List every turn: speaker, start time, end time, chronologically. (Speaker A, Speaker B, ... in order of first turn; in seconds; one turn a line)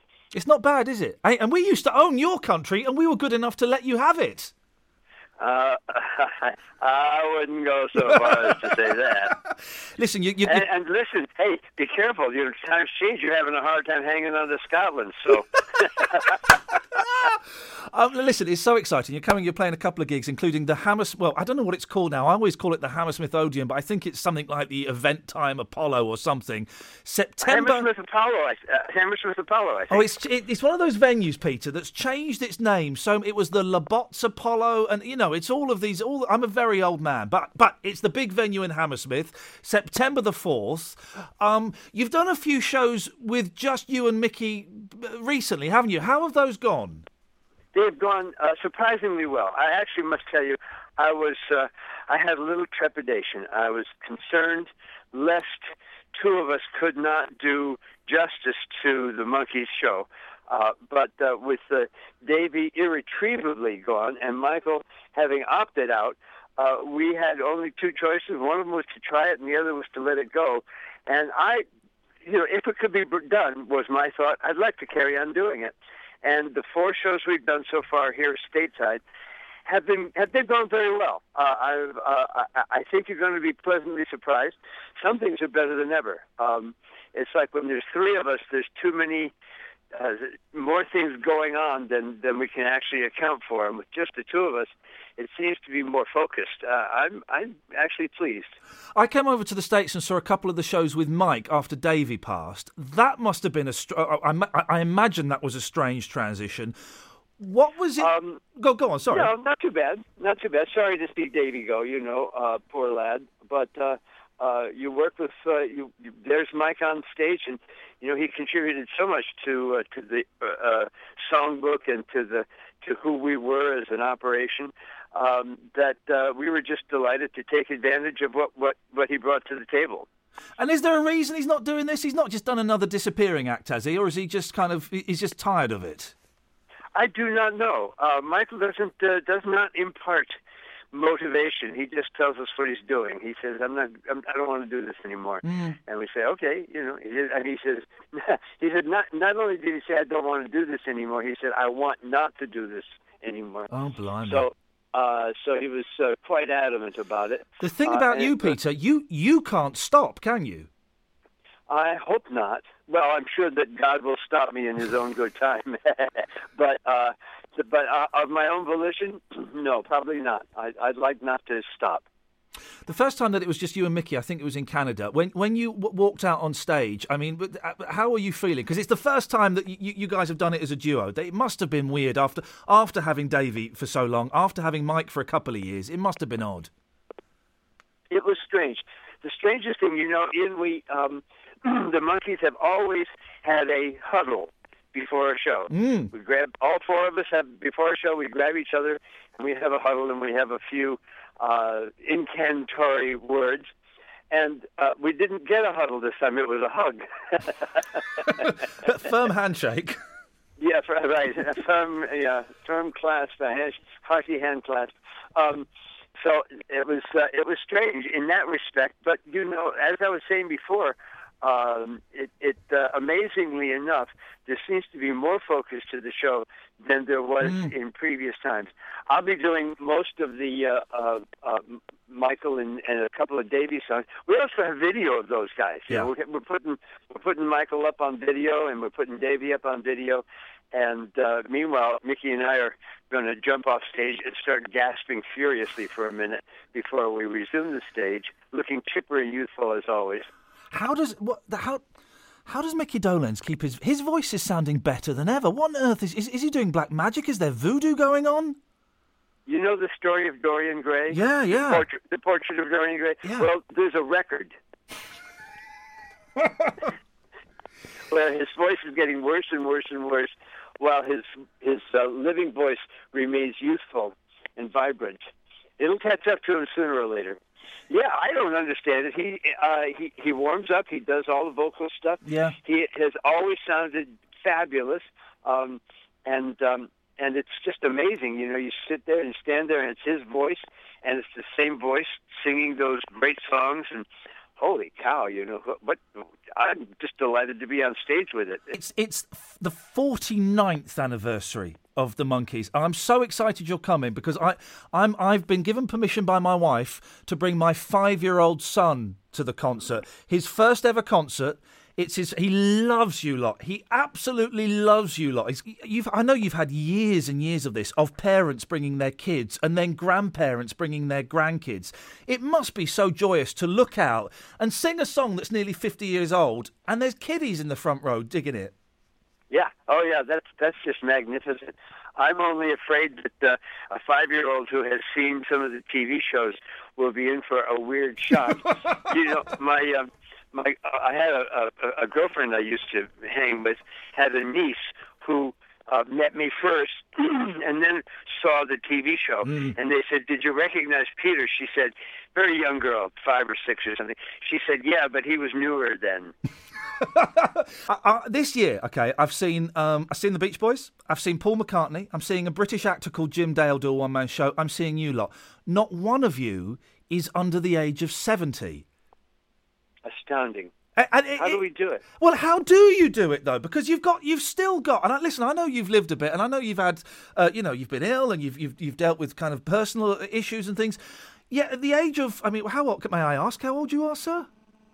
Speaker A: 0.3-4.5
Speaker B: 5.4-9.3
Speaker A: 8.0-8.8
Speaker A: 9.3-10.7
Speaker B: 10.4-16.4
Speaker A: 17.0-17.4
Speaker A: 17.9-27.9
Speaker B: 27.4-30.1
Speaker A: 29.9-47.1
Speaker B: 47.7-71.7
Speaker B: 72.2-79.0
Speaker B: 79.7-89.3
Speaker B: 89.9-98.5
Speaker A: 99.0-106.8
Speaker A: 107.4-109.3
Speaker B: 108.0-108.4
Speaker B: 109.1-130.1
Speaker A: 130.6-136.1
Speaker B: 136.9-140.4
Speaker B: 140.9-153.7
Speaker A: 145.4-145.8
Speaker A: 153.7-154.4
Speaker B: 154.2-158.6
Speaker A: 157.6-160.7
Speaker B: 161.7-172.1
Speaker A: 172.9-186.7
Speaker B: 188.1-203.7
Speaker A: 195.7-196.1
Speaker B: 204.3-207.7
Speaker A: 208.2-210.0
Speaker B: 210.6-250.3
Speaker A: 227.4-227.7
Speaker A: 250.7-251.8
Speaker A: 252.5-258.6
Speaker B: 259.5-264.6
Speaker A: 261.1-261.9
Speaker B: 268.1-275.2
Speaker B: 275.8-277.4
Speaker B: 277.9-294.1
Speaker A: 282.2-282.6
Speaker B: 294.6-298.6
Speaker A: 298.7-328.7
Speaker B: 329.5-356.3
Speaker A: 349.4-349.8
Speaker A: 357.0-368.9
Speaker B: 370.1-370.7
Speaker A: 371.0-381.0
Speaker B: 371.4-372.0
Speaker A: 381.5-384.5